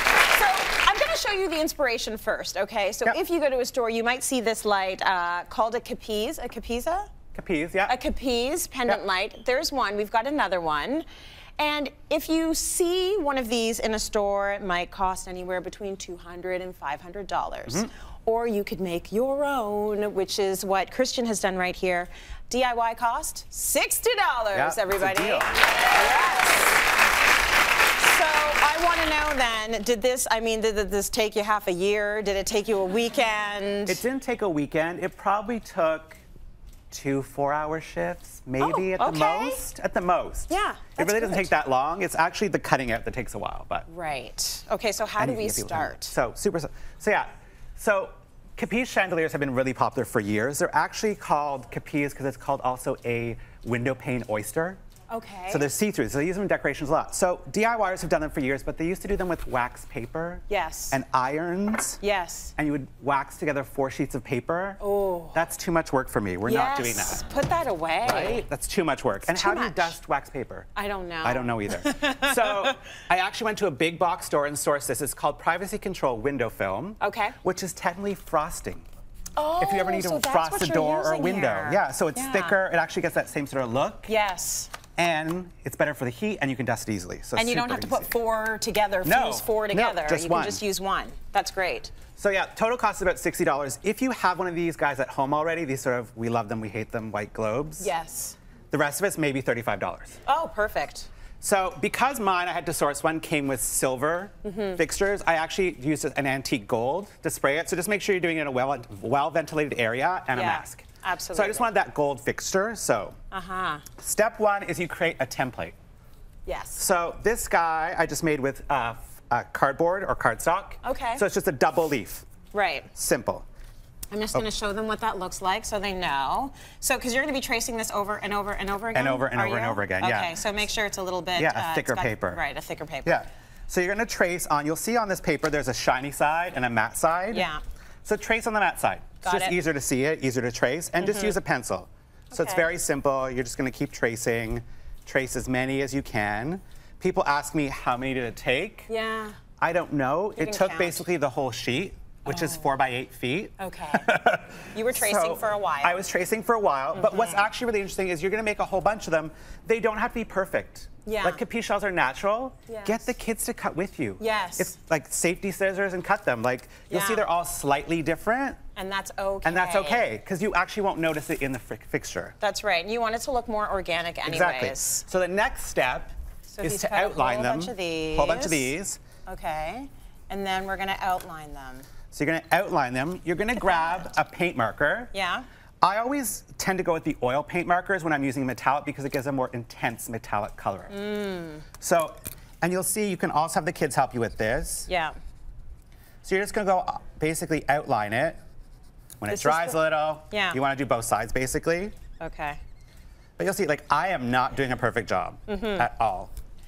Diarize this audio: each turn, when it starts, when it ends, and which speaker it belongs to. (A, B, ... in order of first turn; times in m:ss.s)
0:00.3-0:07.1 A
0:07.3-0:08.0 B
0:07.9-0:11.1 A
0:11.6-0:26.8 A
0:24.5-0:25.5 B
0:28.0-0:34.0 A
0:33.9-0:36.2 B
0:36.9-0:43.9 B
0:38.6-0:39.6 A
0:40.5-0:41.5 A
0:43.9-0:46.1 A
0:45.2-0:54.8 B
0:55.1-0:55.7 A
0:55.5-1:02.0 B
1:00.5-1:01.0 A
1:02.0-1:02.5 A
1:02.6-1:04.8 B
1:04.8-1:05.4 A
1:05.3-1:07.2 B
1:06.4-1:08.4 A
1:08.0-1:10.7 B
1:09.3-1:10.0 A
1:10.8-1:12.7 A
1:11.2-1:18.9 B
1:17.0-1:17.4 A
1:19.4-1:22.6 A
1:19.6-1:24.1 B
1:24.1-1:24.7 A
1:25.0-1:28.1 B
1:27.4-1:32.0 A
1:29.0-1:30.6 B
1:32.2-1:37.9 B
1:37.8-1:38.4 A
1:38.7-1:40.2 B
1:40.3-1:41.1 A
1:41.4-1:53.2 B
1:44.4-1:44.8 A
1:50.3-1:51.7 A
1:53.3-1:53.8 A
1:54.0-1:55.8 B
1:56.5-1:56.8 A
1:56.8-2:02.3 B
2:00.8-2:01.2 A
2:02.5-2:02.9 A
2:03.0-2:03.5 B
2:04.1-2:13.2 A
2:08.9-2:10.4 B
2:11.4-2:12.4 B
2:13.0-2:17.5 B
2:17.3-2:17.6 A
2:18.0-2:28.9 B
2:19.2-2:19.6 A
2:21.0-2:21.4 A
2:22.3-2:22.7 A
2:28.9-2:29.4 A
2:29.6-2:48.6 B
2:30.4-2:31.0 A
2:32.3-2:32.6 A
2:33.6-2:34.1 A
2:34.7-2:36.0 A
2:36.9-2:37.5 A
2:41.1-2:41.4 A
2:42.7-2:43.0 A
2:44.2-2:44.8 A
2:46.9-2:47.2 A
2:48.8-2:50.1 A
2:49.4-2:52.4 B
2:52.4-2:55.1 A
2:54.2-2:59.0 B
2:56.5-2:58.7 A
2:59.3-3:01.9 A
3:02.1-3:05.1 B
3:03.6-3:03.9 A
3:05.1-3:05.5 A
3:05.8-3:10.9 B
3:10.9-3:11.7 A
3:11.8-3:14.9 B
3:14.9-3:15.2 A
3:16.2-3:18.4 B
3:19.2-3:22.0 B
3:19.3-3:20.6 A
3:22.2-3:22.6 A
3:23.4-3:26.3 B
3:25.5-3:25.9 A